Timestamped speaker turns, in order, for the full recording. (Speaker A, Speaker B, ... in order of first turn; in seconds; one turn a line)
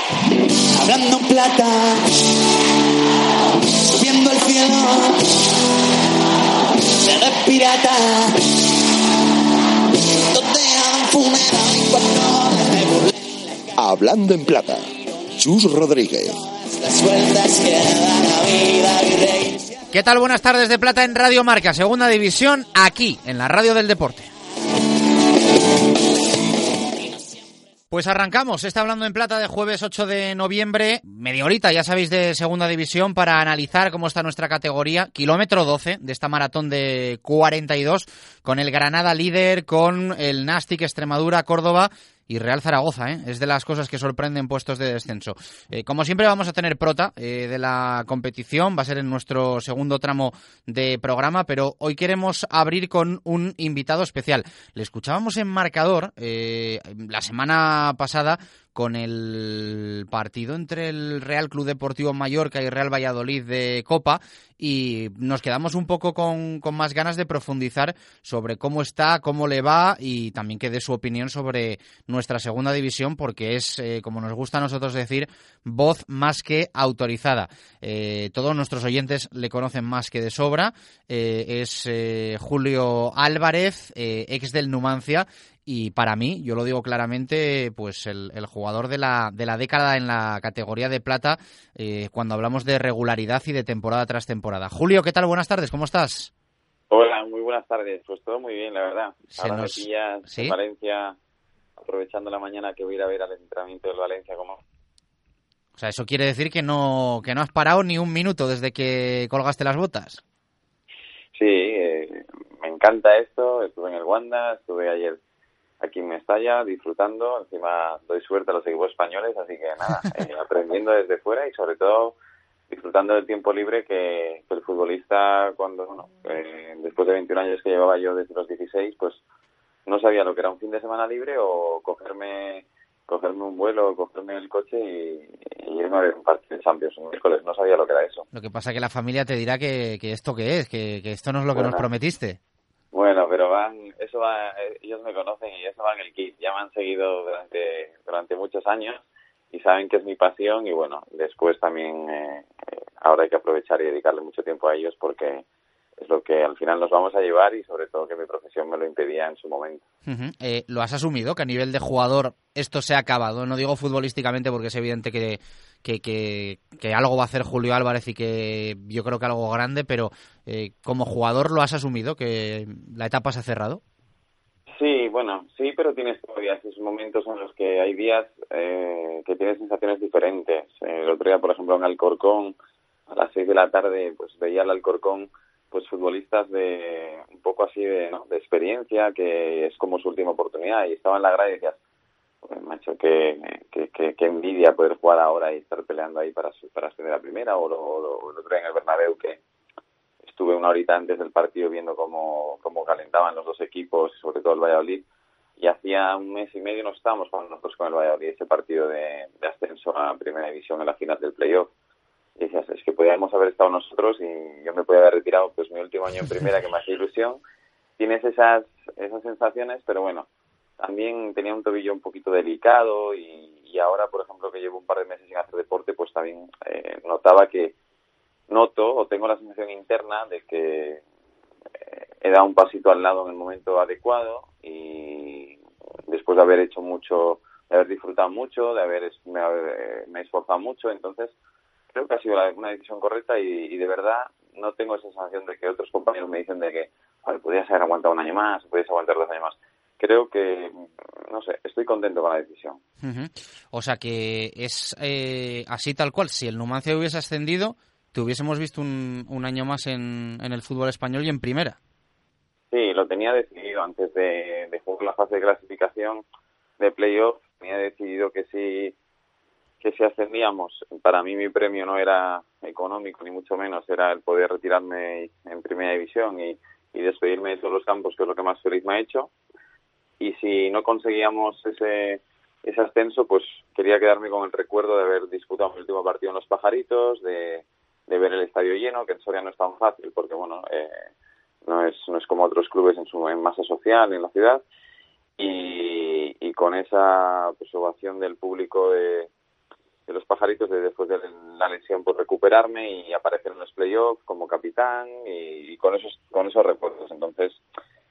Speaker A: 0.7-2.0
Speaker A: 3.8-5.3
Speaker A: 6.9-8.7
Speaker A: 10.2-13.3
Speaker B: 13.8-14.8
Speaker B: 15.4-16.4
Speaker A: 16.6-19.8
Speaker C: 19.9-24.3
Speaker C: 27.9-96.3
Speaker D: 96.9-101.2
Speaker C: 99.3-100.5
Speaker D: 101.8-104.6
Speaker C: 105.8-110.2
Speaker D: 111.3-115.2
Speaker D: 115.8-122.2
Speaker D: 122.7-129.2
Speaker D: 129.9-138.3
Speaker C: 138.3-142.4
Speaker D: 141.6-141.9
Speaker D: 142.9-152.5
Speaker D: 153.0-155.4
Speaker D: 156.0-159.8
Speaker C: 160.1-173.8
Speaker D: 174.7-182.6
Speaker D: 183.1-191.8
Speaker D: 192.4-199.4
Speaker D: 200.2-205.1
Speaker D: 205.6-211.7
Speaker D: 212.4-217.4
Speaker D: 218.0-220.3
Speaker D: 220.8-227.7
Speaker D: 228.5-231.0
Speaker D: 232.2-235.6
Speaker D: 236.1-241.3
Speaker D: 241.9-252.8
Speaker C: 253.0-261.8
Speaker D: 262.7-266.2
Speaker D: 266.8-268.9
Speaker D: 269.8-279.3
Speaker D: 280.2-291.0
Speaker D: 291.6-294.6
Speaker D: 295.4-299.3
Speaker D: 300.1-307.6